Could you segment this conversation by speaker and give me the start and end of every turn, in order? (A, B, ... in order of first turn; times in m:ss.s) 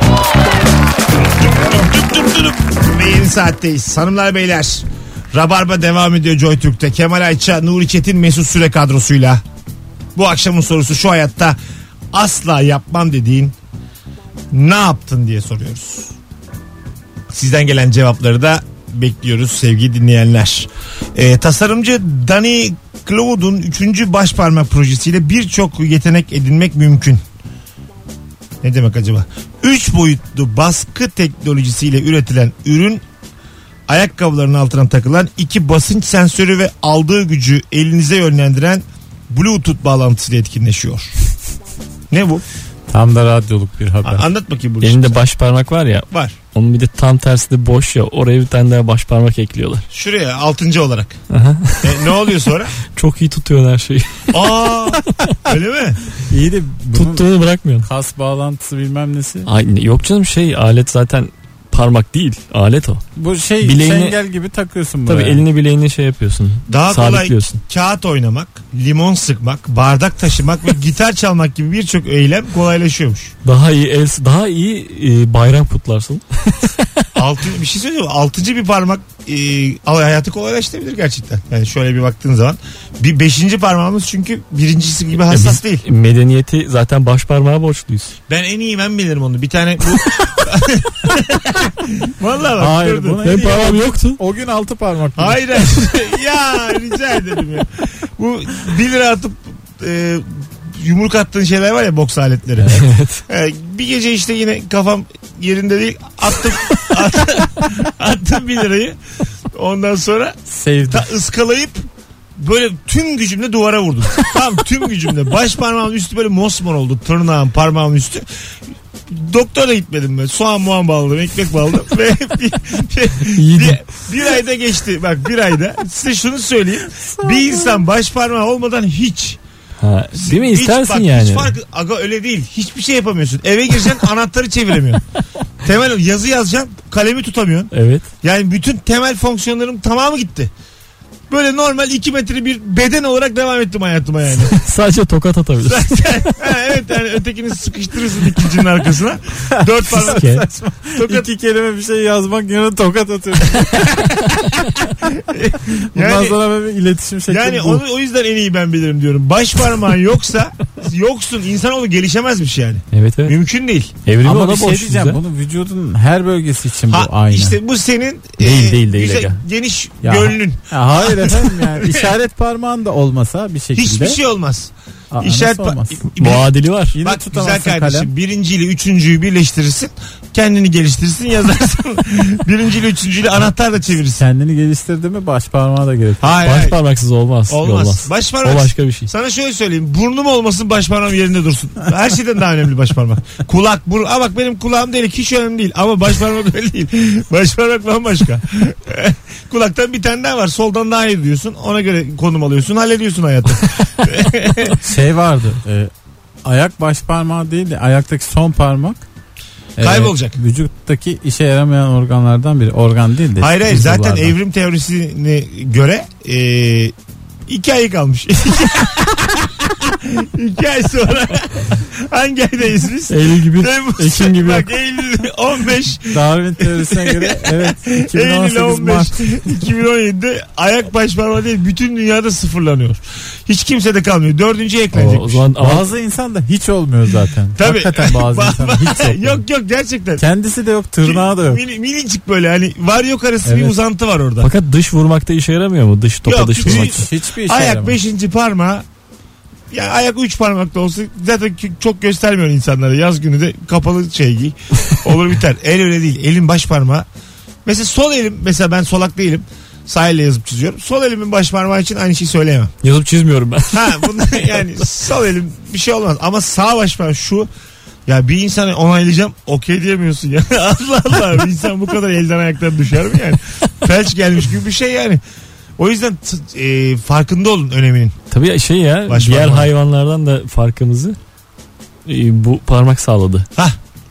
0:01.6-0:09.4 A
0:10.2-0:11.6 A
0:12.1-0:13.5 A
0:14.5-0:16.1 A
0:17.3-0:27.2 A
0:28.6-0:33.0 A
0:33.9-0:41.1 A
0:42.1-0:42.4 A
0:42.9-0:44.2 B
0:44.0-0:45.2 A
0:44.8-0:49.8 C
0:46.1-0:46.4 A
0:49.9-0:51.2 A
0:51.3-0:52.0 C
0:51.8-0:52.7 A
0:52.9-0:54.4 C
0:54.3-0:56.0 A
0:56.3-0:57.3 B
0:56.9-0:57.9 C
0:57.8-0:59.5 B
0:59.4-1:03.0 C
1:03.2-1:05.4 B
1:03.6-1:04.2 C
1:05.1-1:07.6 C
1:06.7-1:13.3 A
1:13.4-1:17.0 C
1:17.2-1:25.8 A
1:25.3-1:28.1 C
1:28.3-1:33.7 A
1:32.6-1:35.4 B
1:33.2-1:34.2 C
1:35.2-1:49.0 A
1:42.7-1:43.2 C
1:49.5-1:50.4 A
1:50.5-1:51.1 B
1:50.9-1:51.8 A
1:52.4-1:58.3 A
1:59.1-2:09.4 A
2:03.3-2:03.8 C
2:07.0-2:07.8 B
2:09.8-2:11.5 C
2:10.1-2:15.0 A
2:15.6-2:17.7 A
2:17.7-2:18.0 C
2:18.2-2:20.5 A
2:21.3-2:24.6 A
2:24.5-2:26.4 C
2:25.6-2:30.4 A
2:29.5-2:34.1 B
2:30.0-2:30.4 C
2:31.0-2:31.3 A
2:33.5-2:36.4 A
2:35.9-2:37.8 B
2:37.3-2:43.9 A
2:42.9-2:43.4 C
2:44.0-2:45.2 C
2:44.2-2:47.6 B
2:46.9-2:52.1 A
2:48.4-2:49.4 C
2:50.0-2:54.2 B
2:53.8-2:56.5 A
2:55.1-2:56.0 B
2:56.2-2:57.0 C
2:56.9-2:58.1 B
2:57.0-3:04.2 A
3:04.2-3:06.2 B
3:06.2-3:06.8 A
3:06.4-3:09.1 C
3:07.5-3:24.8 A
3:24.8-3:25.9 B
3:26.4-3:29.0 B
3:29.8-3:34.3 B
3:29.8-3:30.4 A
3:33.4-3:36.9 A
3:37.5-3:55.4 A
3:43.1-3:44.7 C
3:46.0-3:49.6 B
3:54.9-3:55.9 C
3:55.6-3:59.4 B
3:57.6-4:00.2 A
4:00.2-4:01.6 B
4:01.0-4:04.5 A
4:03.4-4:03.8 B
4:04.4-4:07.1 C
4:06.2-4:08.8 A
4:06.6-4:08.0 B
4:09.7-4:17.1 A
4:17.6-4:22.7 A
4:22.8-4:24.7 C
4:23.7-4:27.5 A
4:28.1-4:35.2 A
4:35.8-4:38.2 A
4:38.3-4:41.2 C
4:39.1-4:39.7 A
4:42.1-4:43.5 C